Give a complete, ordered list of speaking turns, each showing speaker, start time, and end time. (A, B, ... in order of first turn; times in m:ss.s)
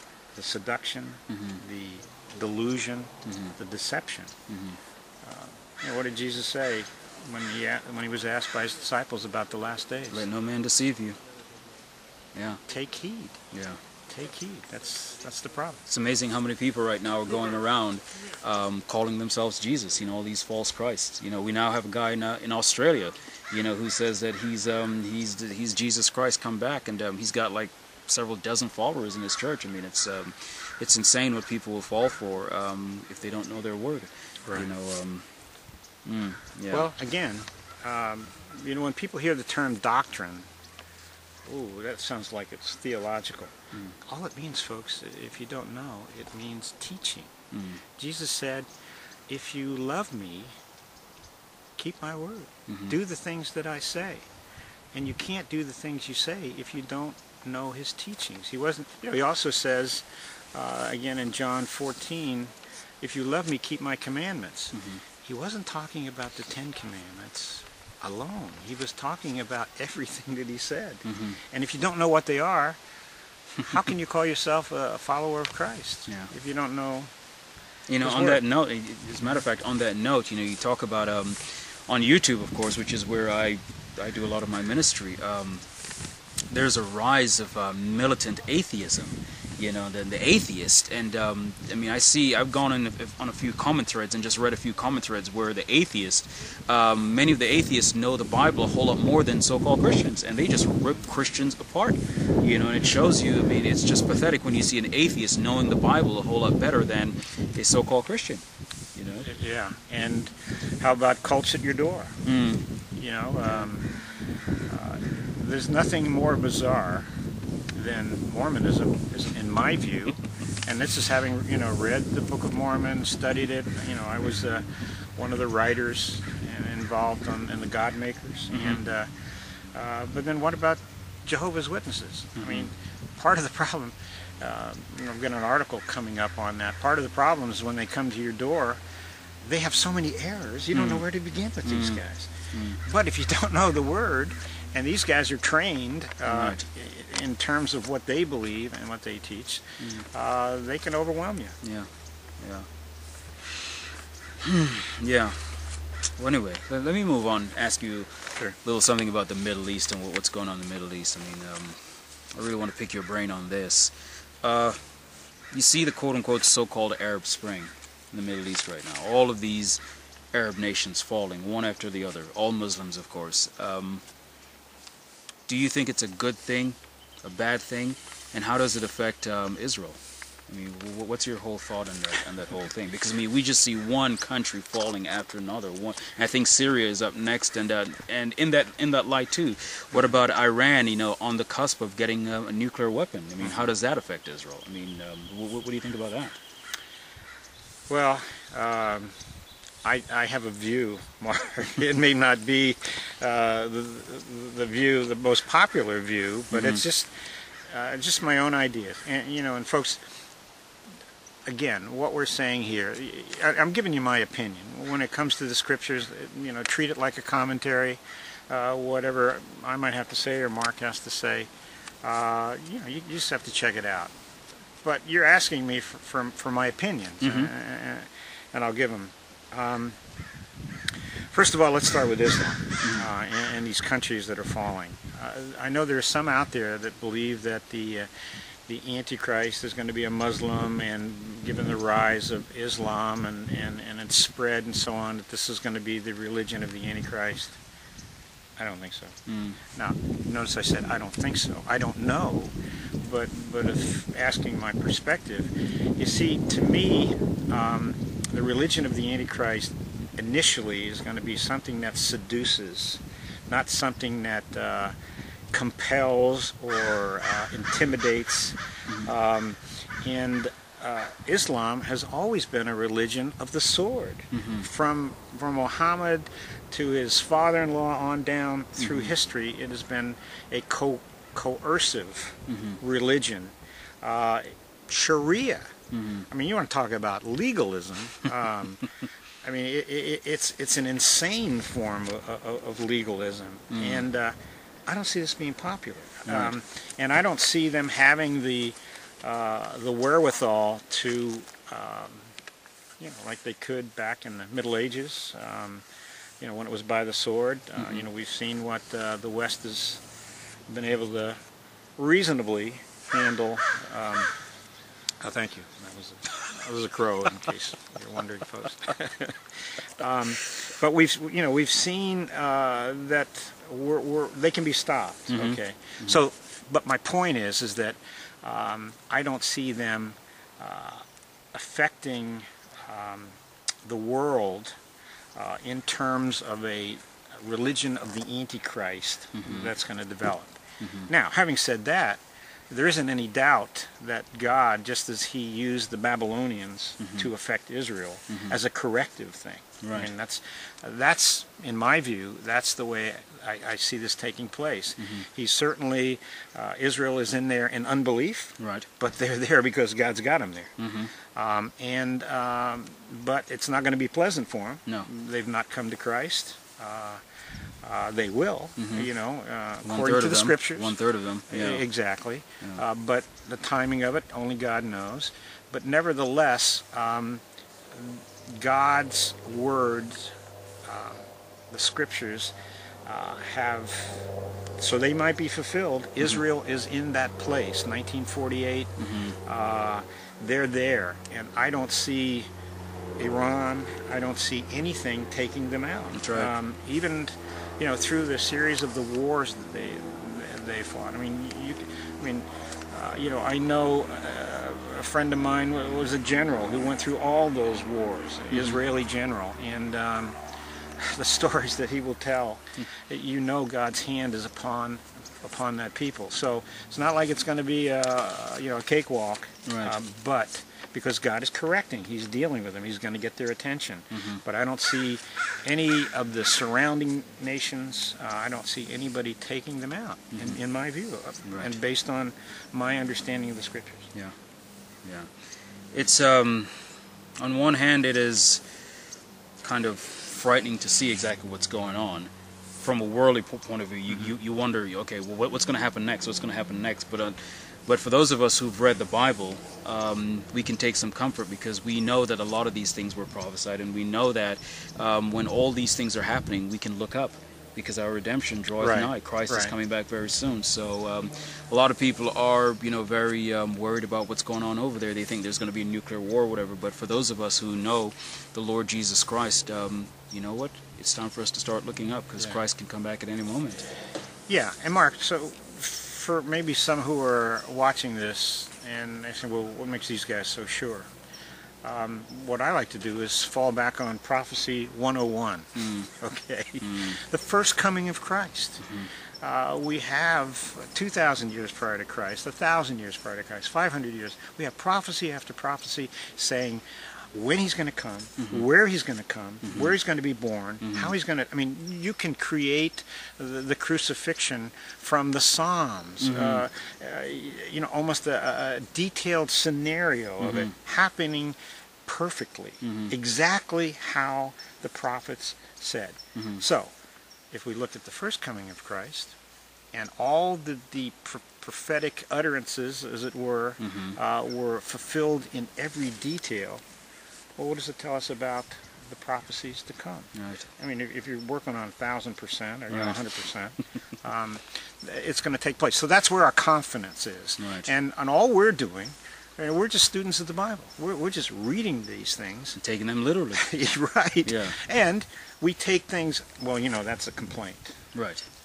0:00.4-0:04.4 A
0:01.3-0:01.6 B
0:03.2-0:03.6 B
0:04.5-0:04.8 B
0:05.2-0:10.2 A
0:10.1-0:11.2 B
0:12.4-0:12.6 B
0:12.7-0:13.4 A
0:13.5-0:13.8 B
0:14.1-0:15.8 A
0:15.9-0:35.3 B
0:36.0-0:36.9 B
0:36.7-0:40.5 A
0:41.4-0:47.3 A
0:47.5-0:47.8 B
0:47.9-0:48.7 A
0:49.3-0:50.6 A
0:51.8-0:54.3 A
0:52.7-0:53.0 B
0:54.9-1:12.8 A
1:04.7-1:05.0 B
1:11.1-1:11.4 B
1:13.6-1:17.1 A
1:17.9-1:25.6 B
1:18.0-1:18.4 A
1:26.5-1:48.4 B
1:49.0-1:49.3 B
1:49.2-1:52.2 A
1:52.2-1:52.6 B
1:53.0-1:54.0 A
1:54.7-1:57.1 A
1:57.7-2:18.8 A
2:08.5-2:08.8 B
2:12.4-2:12.7 B
2:19.4-2:31.6 A
2:20.7-2:21.1 B
2:21.6-2:22.0 B
2:22.5-2:22.8 B
2:26.3-2:26.6 B
2:29.8-2:30.0 B
2:31.6-2:31.9 B
2:32.4-2:32.7 B
2:34.4-2:35.7 B
2:36.2-2:44.8 B
2:45.5-2:49.8 B
2:50.3-2:54.0 B
2:55.5-3:16.4 B
3:17.9-3:19.2 A
3:19.8-3:27.1 A
3:26.5-3:26.8 B
3:27.7-3:30.0 A
3:31.5-3:41.5 A
3:42.0-3:44.1 A
3:44.8-3:50.0 A
3:47.2-3:47.5 B
3:51.3-3:58.1 A
3:52.8-3:53.1 B
3:58.6-4:07.6 A
4:08.6-4:09.2 A
4:09.3-4:09.6 B
4:09.7-4:25.0 A
4:25.5-4:45.7 A
4:34.3-4:34.7 B
4:38.8-4:39.1 B
4:42.5-4:42.8 B
4:45.9-4:46.3 B
4:46.3-4:48.9 A
4:49.4-5:02.3 A
4:53.7-4:54.0 B
4:56.3-4:56.5 B
5:03.0-5:05.8 A
5:06.4-5:10.0 A
5:10.7-5:11.4 A
5:12.0-5:14.3 A
5:15.2-5:34.8 A
5:25.3-5:26.2 B
5:35.4-6:07.2 A
5:39.3-5:39.7 B
5:40.8-5:41.1 B
5:47.0-5:47.3 B
5:48.3-5:48.6 B
5:49.8-5:50.1 B
5:55.0-5:55.2 B
5:58.6-5:58.9 B
6:00.8-6:01.1 B
6:07.8-6:11.0 A
6:08.8-6:09.1 B
6:09.8-6:11.9 B
6:11.5-6:32.5 A
6:29.0-6:29.4 B
6:33.2-6:50.4 A
6:36.1-6:36.5 B
6:48.5-6:48.8 B
6:51.0-7:14.1 A
6:59.6-7:00.0 B
7:04.1-7:04.4 B
7:10.3-7:10.6 B
7:11.5-7:11.7 B
7:15.0-7:15.3 B
7:15.9-7:18.6 B
7:19.6-7:53.9 B
7:38.8-7:39.7 A
7:54.5-8:01.1 A
8:01.8-8:36.9 A
8:05.8-8:06.1 B
8:06.8-8:07.2 B
8:08.8-8:09.1 B
8:19.6-8:20.0 B
8:20.8-8:21.1 B
8:26.2-8:26.6 B
8:30.4-8:30.8 B
8:32.8-8:33.1 B
8:36.4-8:36.6 B
8:37.5-8:39.4 A
8:39.9-8:46.8 A
8:43.8-8:44.2 B
8:47.6-9:02.8 A
8:50.4-8:50.7 B
8:52.9-8:53.2 B
8:57.6-8:57.9 B
9:02.8-9:03.6 B
9:03.5-9:08.0 A
9:04.4-9:04.8 B
9:08.1-9:08.4 B